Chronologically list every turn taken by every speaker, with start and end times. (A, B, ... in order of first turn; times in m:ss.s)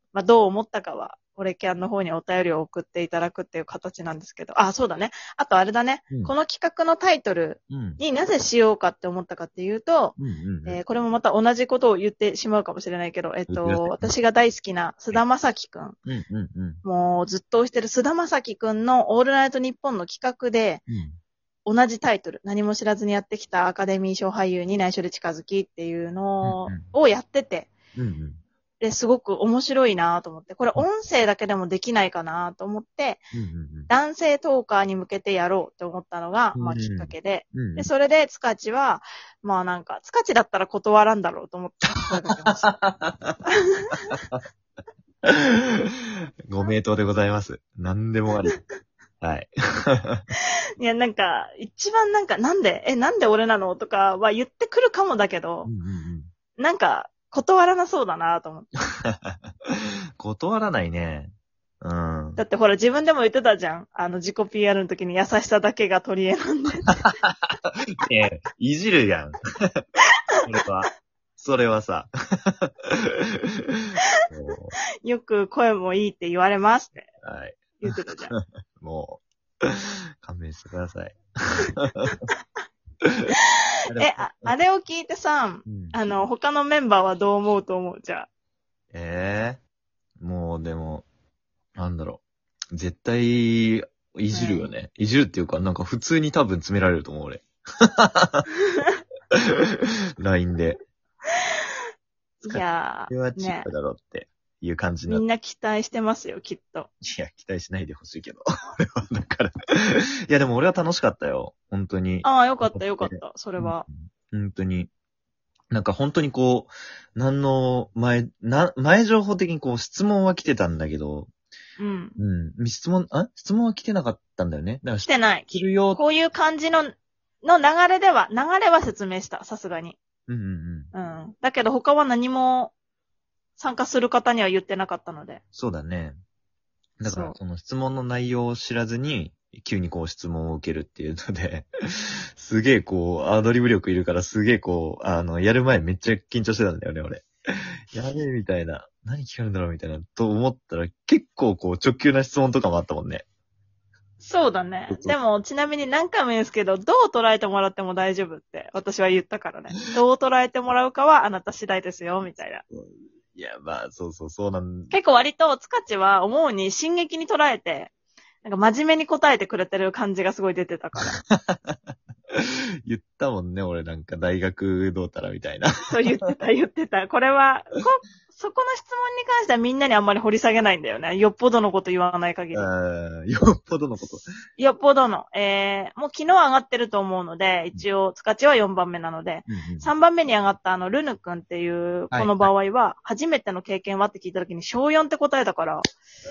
0:00.1-0:16.0 A
0:07.7-0:08.0 B
0:10.2-0:10.8 B
0:13.5-0:14.1 B
0:16.0-0:16.8 B
0:16.8-0:20.8 A
0:20.9-0:21.2 B
0:21.6-0:27.7 A
0:26.4-0:26.9 B
0:28.0-0:28.4 B
0:28.8-0:33.2 A
0:33.3-0:33.9 B
0:33.9-0:42.8 A
0:36.5-0:37.9 B
0:42.0-0:43.4 B
0:43.4-0:44.1 A
0:44.1-0:44.4 B
0:45.2-0:45.8 B
0:46.4-0:48.6 B
0:49.2-0:50.2 B
0:50.8-0:55.7 A
0:55.6-0:56.3 B
0:56.6-0:58.7 A
0:59.1-1:02.4 B
1:02.4-1:06.8 A
1:06.9-1:09.8 B
1:10.4-1:13.1 B
1:14.3-1:14.8 B
1:15.0-1:17.1 A
1:17.2-1:22.2 B
1:17.8-1:18.3 A
1:23.9-1:24.5 B
1:24.0-1:28.3 A
1:25.6-1:26.0 B
1:28.9-1:29.6 B
1:30.2-1:31.0 B
1:31.7-1:32.2 B
1:32.7-1:38.4 B
1:34.3-1:34.7 A
1:40.2-1:40.8 B
1:42.4-1:45.2 B
1:42.4-1:43.7 A
1:45.1-1:46.9 A
1:47.0-1:54.9 B
1:52.2-1:53.8 A
1:55.7-2:01.3 B
2:01.8-2:02.2 A
2:02.2-2:06.0 B
2:05.0-2:10.0 A
2:10.3-2:10.9 B
2:10.9-2:12.7 A
2:13.6-2:15.4 A
2:15.5-2:16.2 B
2:17.0-2:27.2 B
2:17.0-2:17.4 A
2:27.9-2:33.2 B
2:34.2-2:42.6 A
2:34.9-2:35.2 B
2:42.7-2:44.9 B
2:44.9-2:47.9 A
2:48.4-2:51.2 A
2:51.0-2:51.8 B
2:52.3-2:55.7 B
2:55.9-3:02.7 A
3:02.5-3:04.3 B
3:04.6-3:15.8 A
3:09.5-3:09.9 B
3:12.1-3:12.5 B